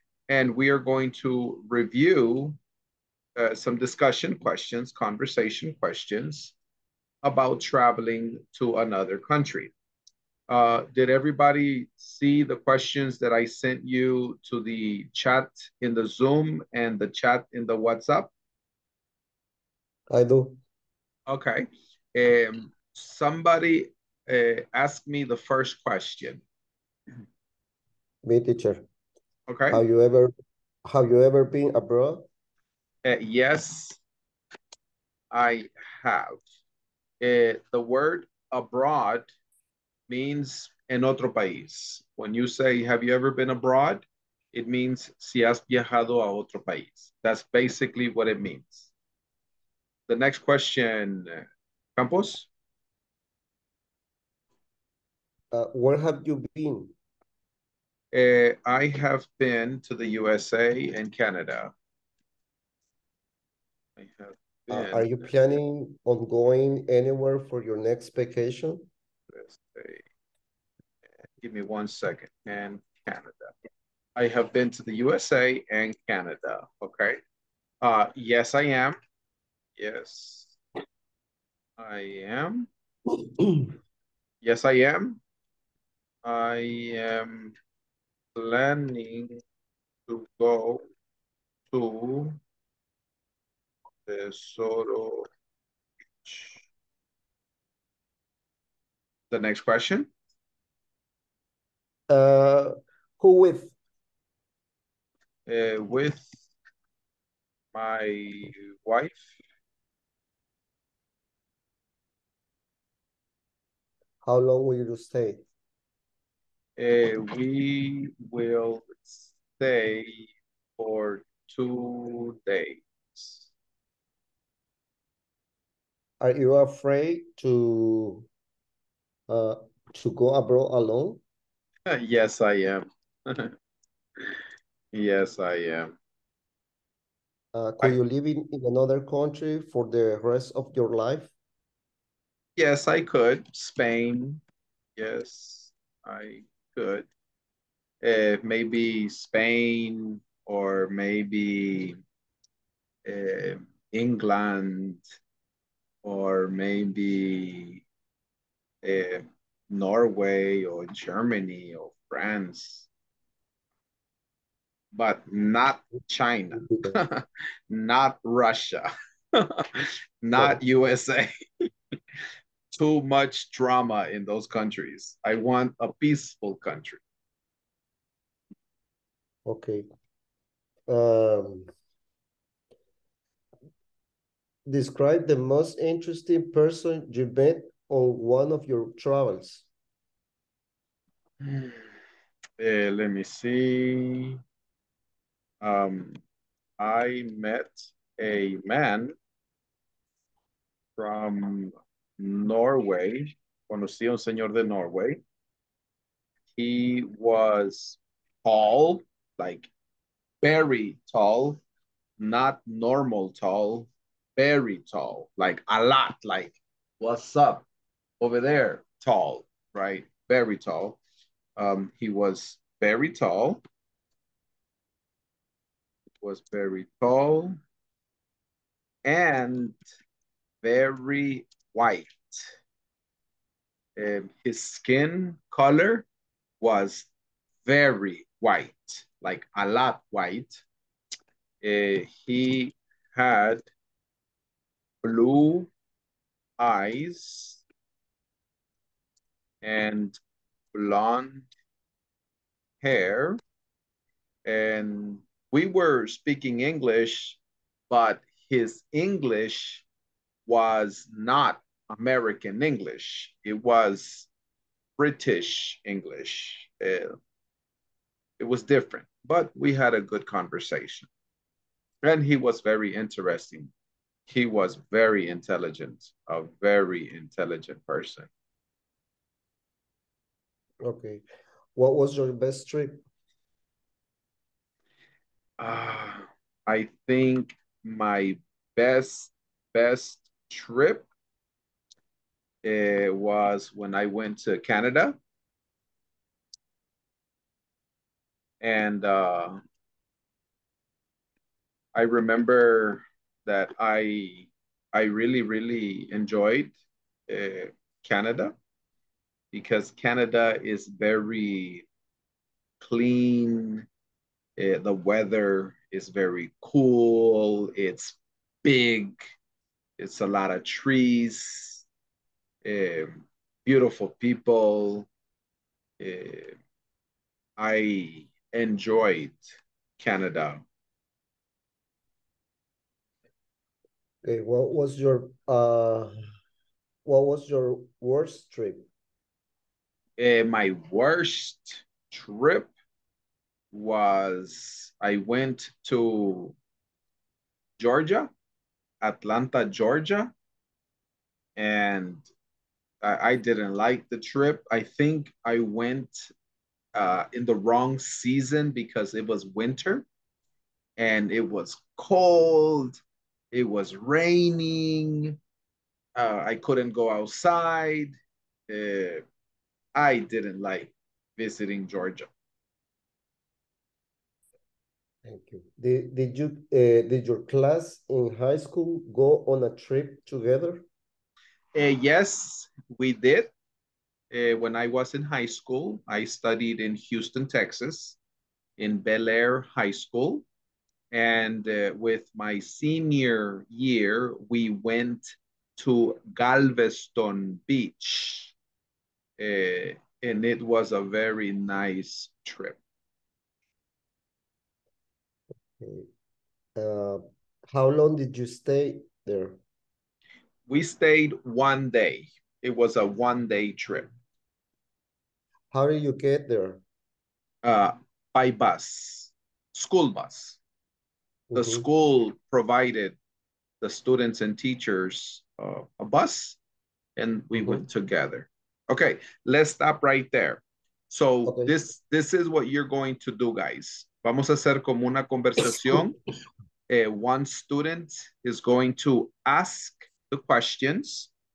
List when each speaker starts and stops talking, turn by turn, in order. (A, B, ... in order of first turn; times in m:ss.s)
0:00.3-0:02.6 A
0:03.4-0:06.5 A
0:07.2-0:09.7 A
0:10.5-0:18.3 A
0:20.1-0:20.6 B
0:21.3-0:26.4 A
0:28.2-0:28.8 B
0:29.5-0:29.8 A
0:29.7-0:30.3 B
0:30.8-0:32.2 B
0:33.0-0:34.0 A
0:35.3-0:36.4 A
0:37.2-0:39.3 A
0:40.1-0:48.9 A
0:50.1-0:51.4 A
0:52.0-0:52.5 A
0:55.5-0:56.9 B
0:58.1-1:01.7 A
1:04.0-1:05.2 A
1:04.7-1:08.9 B
1:09.3-1:10.0 A
1:11.4-1:13.5 A
1:14.2-1:17.2 A
1:17.8-1:19.0 A
1:19.8-1:20.6 A
1:21.8-1:22.7 A
1:24.4-1:25.2 A
1:26.2-1:27.6 A
1:28.4-1:29.4 A
1:30.1-1:30.8 A
1:31.7-1:32.4 A
1:34.1-1:35.3 A
1:36.2-1:36.6 A
1:39.3-1:40.1 A
1:42.1-1:43.7 B
1:45.5-1:46.4 A
1:47.7-1:49.4 A
1:54.2-1:55.4 B
1:56.8-2:03.5 A
2:06.2-2:08.3 B
2:09.3-2:11.2 B
2:11.9-2:13.5 A
2:14.9-2:15.9 A
2:17.5-2:21.3 B
2:22.6-2:24.4 A
2:25.0-2:27.1 A
2:28.0-2:32.0 A
2:33.0-2:35.0 A
2:36.0-2:37.8 A
2:38.8-2:42.9 A
2:44.9-2:51.3 A
2:46.5-2:47.0 B
2:52.7-2:57.0 A
2:59.5-2:59.9 B
3:00.9-3:01.7 B
3:04.7-3:09.7 B
3:11.4-3:11.9 A
3:12.6-3:14.4 A
3:15.6-3:16.2 A
3:16.8-3:19.1 A
3:21.0-3:25.2 A
3:26.6-3:29.7 A
3:30.4-3:31.6 A
3:32.2-3:37.7 A
3:38.2-3:41.0 A
3:41.6-3:43.6 A
3:46.2-3:47.6 A
3:49.0-3:49.8 A
3:50.6-3:52.5 A
3:54.0-3:56.1 A
3:56.6-3:57.1 A
3:57.6-4:00.6 A
4:01.6-4:03.6 A
4:05.0-4:05.7 A
4:06.6-4:07.6 A
4:09.6-4:10.2 A
4:10.7-4:11.5 A
4:12.8-4:13.4 A
4:14.4-4:17.4 A
4:17.9-4:19.8 A
4:20.5-4:24.3 A
4:25.0-4:27.2 A
4:28.4-4:31.1 A
4:32.0-4:33.7 A
4:34.3-4:38.3 A
4:40.8-4:41.2 B
4:41.8-4:43.0 B
4:45.6-4:51.1 A
4:52.6-4:55.2 A
4:58.6-4:59.6 A
5:01.9-5:06.7 A
5:07.3-5:08.6 A
5:09.5-5:11.8 A
5:12.8-5:13.9 A
5:14.6-5:19.2 A
5:20.0-5:21.8 A
5:22.6-5:25.1 A
5:26.0-5:26.6 A
5:27.6-5:30.6 A
5:34.2-5:36.2 B
5:37.0-5:38.9 B
5:40.2-5:42.7 A
5:43.7-5:46.6 A
5:47.8-5:48.3 A
5:49.0-5:50.3 A
5:51.6-5:52.3 A
5:53.0-5:56.3 A
5:57.0-6:00.1 A
6:01.0-6:03.0 A
6:03.5-6:05.4 A
6:06.2-6:08.2 A
6:08.7-6:09.2 A
6:10.0-6:12.3 A
6:15.2-6:20.9 B
6:21.8-6:23.5 A
6:24.3-6:28.2 A
6:28.8-6:30.4 A
6:31.1-6:38.5 A
6:39.4-6:42.8 A
6:45.8-6:46.1 B
6:46.8-6:49.6 B
6:50.7-6:54.1 A
6:55.7-6:56.8 B
6:57.6-7:00.6 A
7:01.5-7:01.9 B
7:01.6-7:03.2 A
7:03.8-7:06.6 A
7:07.2-7:16.2 A
7:11.4-7:11.7 B
7:16.9-7:21.3 A